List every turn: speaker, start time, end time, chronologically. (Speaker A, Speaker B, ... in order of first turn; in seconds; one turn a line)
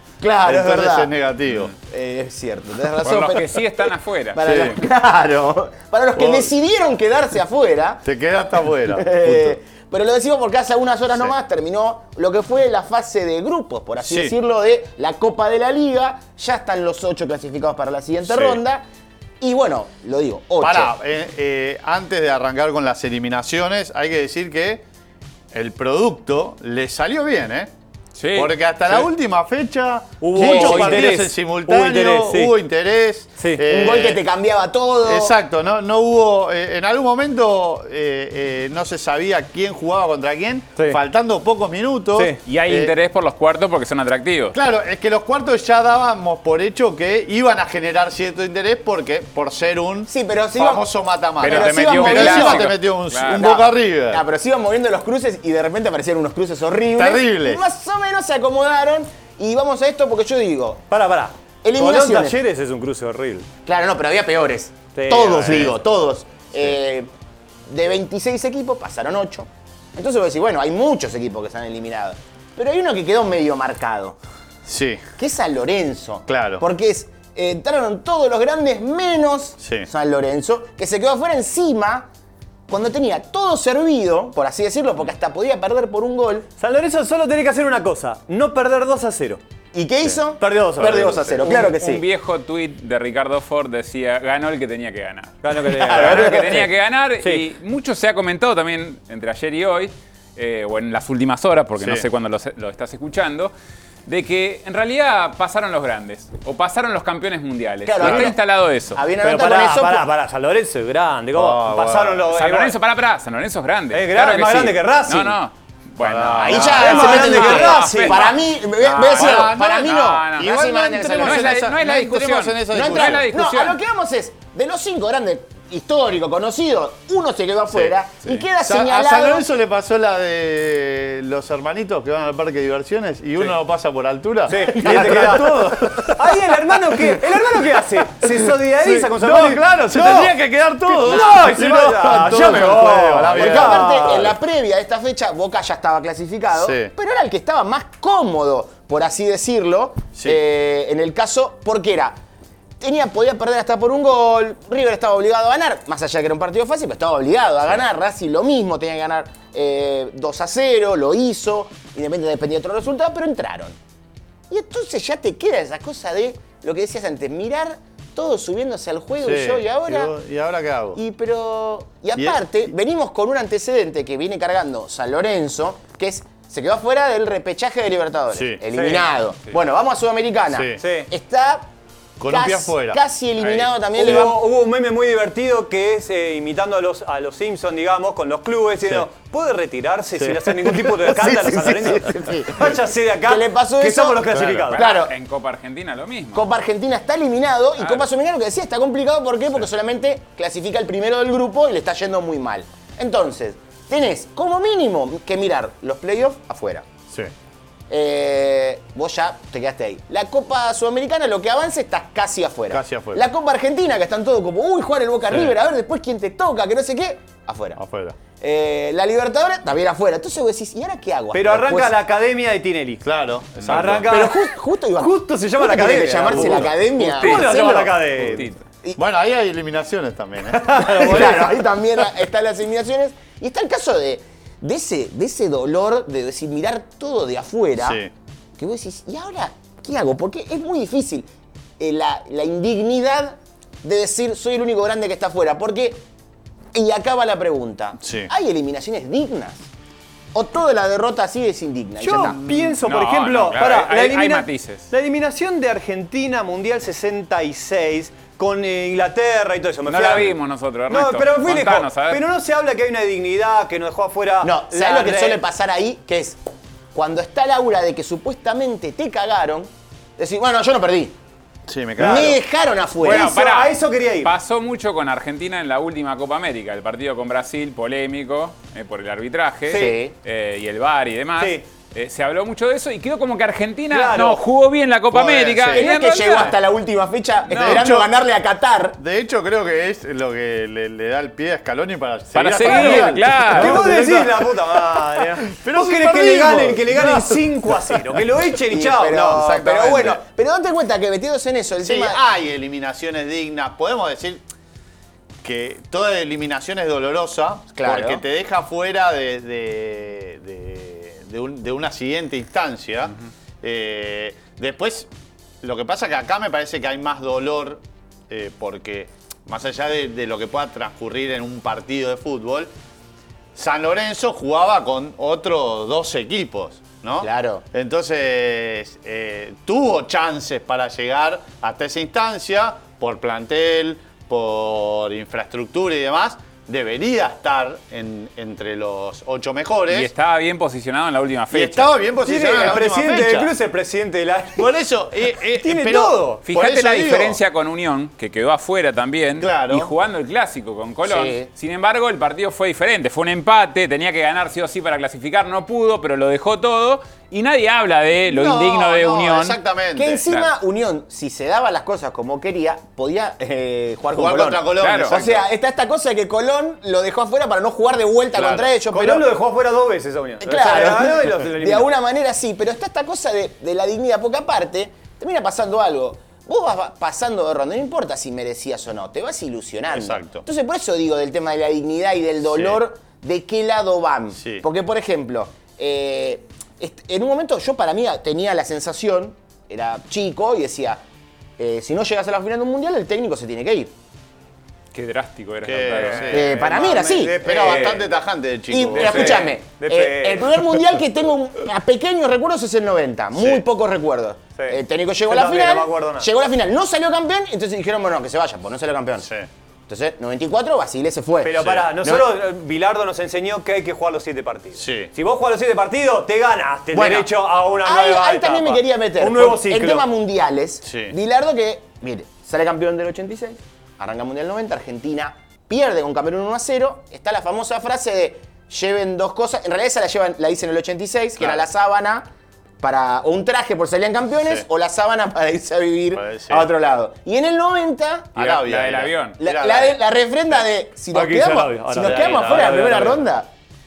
Speaker A: 0.2-1.1
Speaker B: 0.4-1.7
Speaker A: 1.8-8.1
Speaker C: 3.0-4.5
Speaker B: 4.4-4.8
Speaker B: 6.2-6.5
Speaker B: 8.1-9.6
Speaker A: 8.8-18.9
Speaker B: 14.0-14.3
Speaker B: 18.3-18.6
Speaker A: 19.4-20.9
Speaker B: 20.6-24.8
Speaker B: 25.5-27.7
Speaker C: 28.2-28.5
Speaker B: 28.4-34.2
Speaker D: 30.2-32.5
Speaker A: 30.4-31.1
Speaker D: 33.4-33.6
Speaker A: 33.7-35.4
Speaker B: 35.0-42.9
Speaker D: 42.1-42.4
Speaker C: 42.5-44.6
Speaker B: 44.5-54.2
Speaker A: 50.1-50.9
Speaker A: 51.4-60.8
Speaker C: 51.4-53.5
Speaker B: 57.0-57.6
Speaker D: 60.9-63.5
Speaker A: 61.6-62.4
Speaker A: 63.6-67.1
Speaker D: 65.0-65.7
Speaker B: 65.2-65.8
Speaker A: 67.7-74.2
Speaker B: 74.7-75.0
Speaker A: 75.2-82.1
Speaker B: 76.3-76.6
Speaker B: 79.6-79.9
Speaker A: 82.7-86.5
Speaker D: 86.6-89.4
Speaker A: 89.7-92.0
Speaker D: 90.4-91.7
Speaker C: 91.5-103.5
Speaker D: 95.4-96.7
Speaker A: 95.7-96.7
Speaker D: 97.2-97.5
Speaker B: 101.8-102.0
Speaker C: 104.1-109.0
Speaker A: 107.8-108.4
Speaker B: 108.0-108.3
Speaker A: 108.9-110.1
Speaker D: 109.2-112.8
Speaker B: 111.3-112.3
Speaker C: 112.3-118.3
Speaker D: 113.9-115.4
Speaker B: 116.0-117.3
Speaker A: 116.4-121.8
Speaker D: 116.8-118.3
Speaker B: 118.8-123.2
Speaker C: 119.2-123.8
Speaker A: 122.7-129.5
Speaker B: 127.7-144.3
Speaker D: 134.5-144.3
Speaker A: 134.6-135.6
Speaker A: 141.1-141.5
Speaker A: 142.3-142.8
Speaker A: 143.3-152.2
Speaker B: 146.6-146.9
Speaker A: 152.8-163.8
Speaker A: 164.5-170.1
Speaker B: 169.2-171.0
Speaker A: 170.9-181.7
Speaker B: 178.3-178.6
Speaker D: 178.7-179.1
Speaker B: 180.5-180.8
Speaker D: 180.8-181.1
Speaker B: 182.2-184.3
Speaker A: 182.3-184.4
Speaker D: 183.9-194.8
Speaker A: 191.0-195.2
Speaker B: 194.3-194.7
Speaker C: 194.8-196.4
Speaker A: 196.3-206.9
Speaker C: 197.8-198.1
Speaker A: 207.9-217.8
Speaker B: 212.7-213.2
Speaker B: 215.3-215.6
Speaker B: 217.8-218.2
Speaker A: 218.3-222.0
Speaker D: 221.3-223.1
Speaker B: 223.0-224.1
Speaker D: 223.6-224.4
Speaker A: 224.1-228.2
Speaker D: 225.0-228.5
Speaker B: 226.3-226.7
Speaker C: 227.0-227.7
Speaker C: 228.3-228.6
Speaker B: 229.0-231.4
Speaker D: 230.5-231.5
Speaker A: 230.9-238.0
Speaker B: 237.8-238.1
Speaker A: 238.6-241.3
Speaker A: 241.8-246.0
Speaker A: 246.7-249.7
Speaker B: 248.0-248.3
Speaker A: 250.3-252.4
Speaker D: 252.0-260.4
Speaker B: 252.3-252.8
Speaker C: 252.8-254.9
Speaker C: 259.9-262.2
Speaker D: 260.9-265.4
Speaker A: 264.4-266.4
Speaker A: 266.9-271.2
Speaker B: 271.7-272.4
Speaker A: 272.0-273.3
Speaker D: 272.0-272.3
Speaker C: 273.0-286.6
Speaker D: 273.0-274.3
Speaker A: 279.7-280.1
Speaker D: 281.4-281.6
Speaker D: 283.9-284.4
Speaker B: 285.1-285.9
Speaker A: 285.7-289.0
Speaker C: 287.5-287.9
Speaker B: 287.5-288.1
Speaker B: 289.0-294.6
Speaker C: 292.3-294.0
Speaker D: 292.6-300.2
Speaker B: 295.4-298.1
Speaker A: 298.7-302.2
Speaker B: 299.6-300.1
Speaker B: 301.8-304.4
Speaker B: 305.4-315.1
Speaker A: 307.8-308.2
Speaker B: 315.6-322.7
Speaker B: 323.6-340.1
Speaker A: 327.2-327.6
Speaker C: 339.9-341.9
Speaker B: 341.5-343.5
Speaker D: 342.2-344.7
Speaker B: 344.6-347.4
Speaker D: 345.6-346.4
Speaker C: 346.5-359.6
Speaker B: 349.4-349.9
Speaker A: 351.0-351.5
Speaker B: 358.4-360.2
Speaker A: 359.9-369.3
Speaker B: 364.1-365.5
Speaker C: 364.8-365.1
Speaker B: 368.4-368.7
Speaker D: 368.9-371.9
Speaker A: 370.4-391.0
Speaker B: 379.9-380.4
Speaker B: 382.5-382.8
Speaker B: 384.4-384.6
Speaker A: 391.6-393.9
Speaker C: 394.9-396.6
Speaker B: 395.6-399.5
Speaker A: 396.3-397.9
Speaker D: 396.5-398.1
Speaker A: 398.7-409.3
Speaker D: 398.9-400.6
Speaker B: 403.4-403.6
Speaker D: 404.6-406.3
Speaker B: 409.2-409.5
Speaker A: 409.9-412.3
Speaker D: 411.4-420.1
Speaker B: 411.6-411.9
Speaker B: 414.8-415.1
Speaker A: 416.9-432.3
Speaker B: 420.9-421.1
Speaker B: 431.4-431.6
Speaker A: 432.8-438.6
Speaker B: 436.1-436.7
Speaker B: 438.4-440.0
Speaker C: 438.5-439.4
Speaker A: 439.4-443.5
Speaker D: 441.1-443.3
Speaker B: 442.0-443.0